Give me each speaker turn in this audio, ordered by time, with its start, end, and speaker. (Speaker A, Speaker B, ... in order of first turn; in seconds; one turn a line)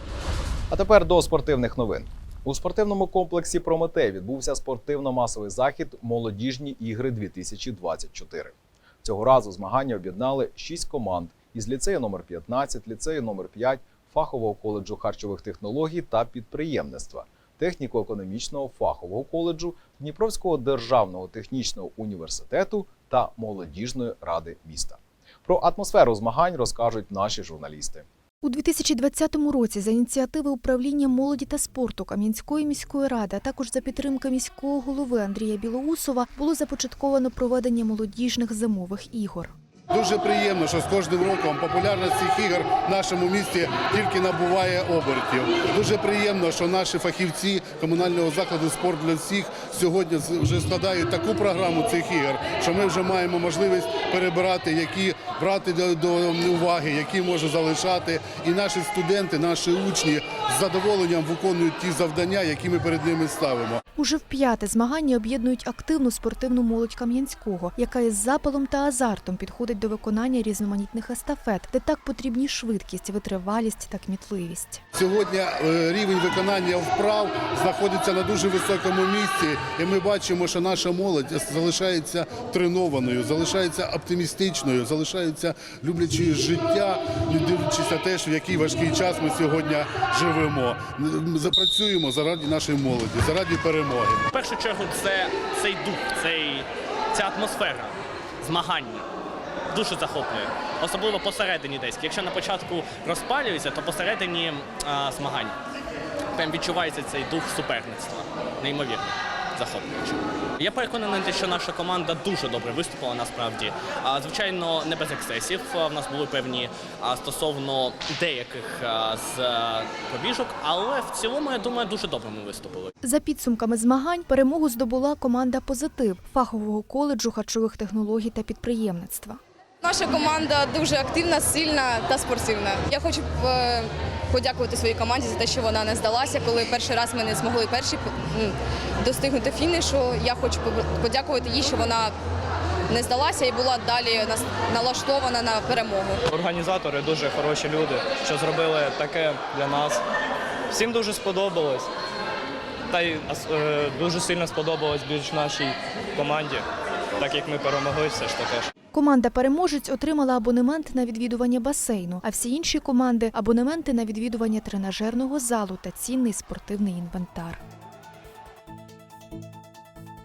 Speaker A: 0.7-28.1
Speaker B: 28.4-39.5
Speaker C: 39.9-63.8
Speaker B: 64.0-74.8
Speaker C: 75.0-94.2
Speaker D: 94.3-99.1
Speaker D: 99.7-105.6
Speaker D: 106.3-122.9
Speaker B: 123.0-129.4
Speaker E: 129.8-142.1
Speaker F: 129.9-133.4
Speaker F: 134.4-138.0
Speaker F: 139.1-142.0
Speaker E: 142.9-146.2
Speaker F: 142.9-149.9
Speaker F: 150.8-151.7
Speaker F: 153.0-155.6
Speaker F: 156.2-156.5
Speaker F: 157.3-158.1
Speaker B: 158.9-167.6